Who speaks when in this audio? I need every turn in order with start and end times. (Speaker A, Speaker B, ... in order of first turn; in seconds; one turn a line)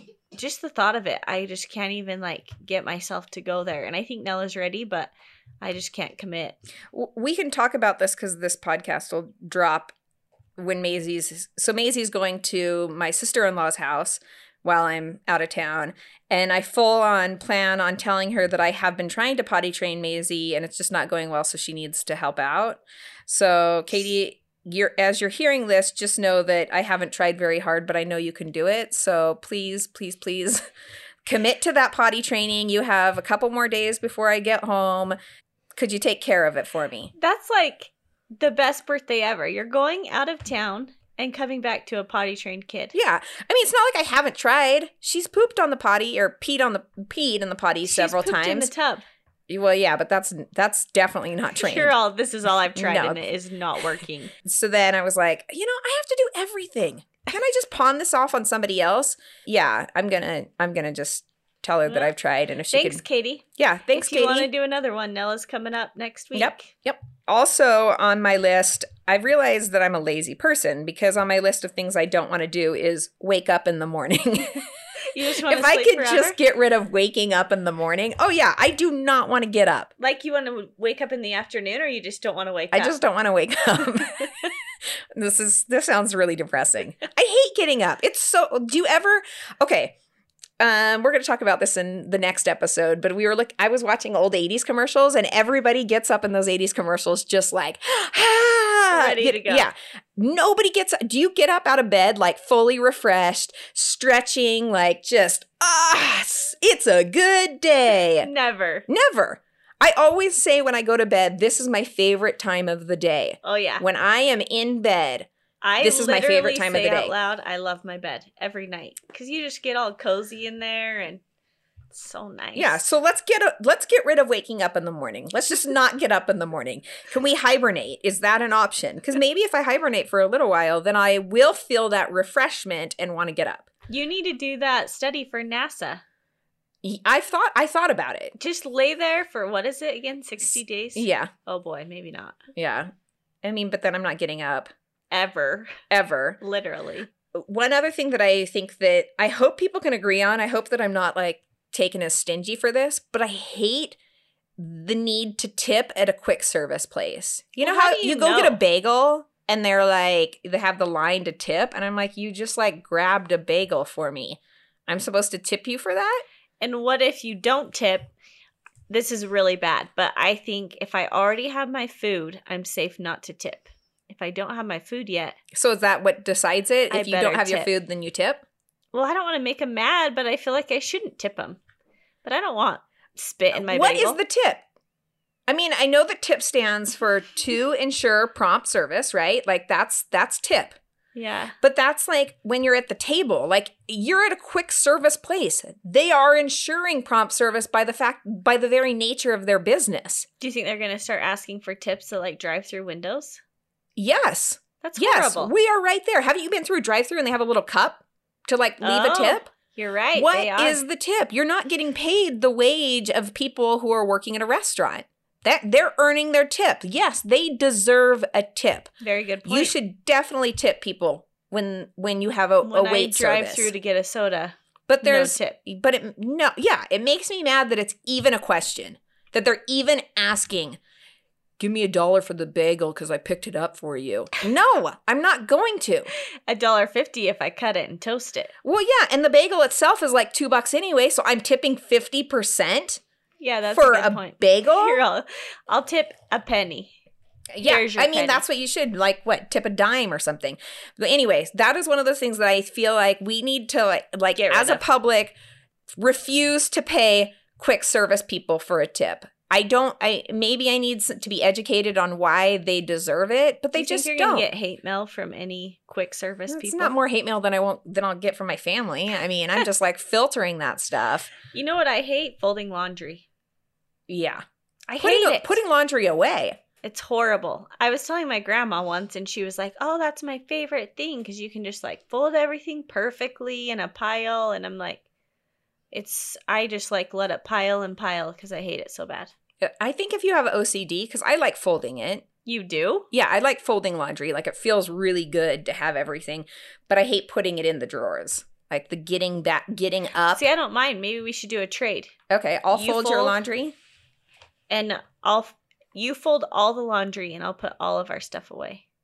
Speaker A: 0.3-6.6
Speaker B: 6.9-9.9
Speaker B: 10.6-30.6
Speaker B: 31.2-35.2
Speaker B: 35.8-37.1
Speaker A: 37.2-42.9
Speaker B: 42.9-48.7
Speaker A: 47.9-49.0
Speaker B: 49.5-51.9
Speaker A: 51.6-54.3
Speaker B: 52.8-53.2
Speaker B: 54.4-63.0
Speaker A: 61.9-62.1
Speaker A: 62.7-66.7
Speaker B: 63.6-64.5
Speaker B: 66.3-74.7
Speaker A: 75.1-76.4
Speaker B: 75.4-79.9
Speaker A: 80.0-82.9
Speaker B: 82.7-84.3
Speaker B: 85.2-90.0
Speaker B: 90.6-108.3
Speaker A: 98.9-99.7
Speaker A: 108.2-108.9
Speaker B: 108.9-115.3
Speaker A: 113.4-113.8
Speaker A: 115.6-121.2
Speaker B: 115.8-117.1
Speaker A: 121.9-122.8
Speaker B: 122.5-133.7
Speaker A: 133.9-136.0
Speaker B: 136.8-138.3
Speaker A: 138.4-142.4
Speaker B: 140.9-141.3
Speaker B: 142.6-142.9
Speaker B: 143.4-144.7
Speaker A: 145.1-145.8
Speaker B: 145.9-146.4
Speaker A: 146.4-147.1
Speaker B: 147.3-154.0
Speaker B: 154.6-166.2
Speaker A: 157.6-158.6
Speaker A: 166.6-168.1
Speaker A: 168.9-175.4
Speaker B: 175.5-178.4
Speaker A: 176.9-177.7
Speaker A: 178.9-181.6
Speaker A: 182.2-184.2
Speaker B: 183.5-184.6
Speaker B: 185.5-190.8
Speaker A: 191.2-191.6
Speaker B: 191.6-200.3
Speaker A: 200.4-203.4
Speaker B: 204.0-209.5
Speaker A: 204.8-205.5
Speaker A: 208.8-210.8
Speaker B: 210.1-218.9
Speaker A: 219.0-219.7
Speaker B: 219.5-223.7
Speaker A: 222.6-225.6
Speaker B: 224.9-230.8
Speaker B: 231.6-236.1
Speaker A: 236.5-238.5
Speaker B: 238.6-243.0
Speaker A: 243.4-246.9
Speaker B: 243.7-245.0
Speaker B: 247.5-255.4
Speaker A: 247.6-248.4
Speaker A: 254.5-254.8
Speaker B: 255.9-264.5
Speaker A: 263.8-266.9
Speaker B: 266.5-271.3
Speaker A: 271.5-273.2
Speaker B: 274.1-276.6
Speaker A: 275.0-275.6
Speaker A: 276.8-285.0
Speaker A: 285.9-289.3
Speaker B: 289.6-292.2
Speaker A: 292.4-293.1
Speaker B: 293.1-300.4
Speaker A: 300.3-302.1
Speaker B: 302.3-303.8
Speaker A: 302.7-303.4
Speaker A: 304.7-308.8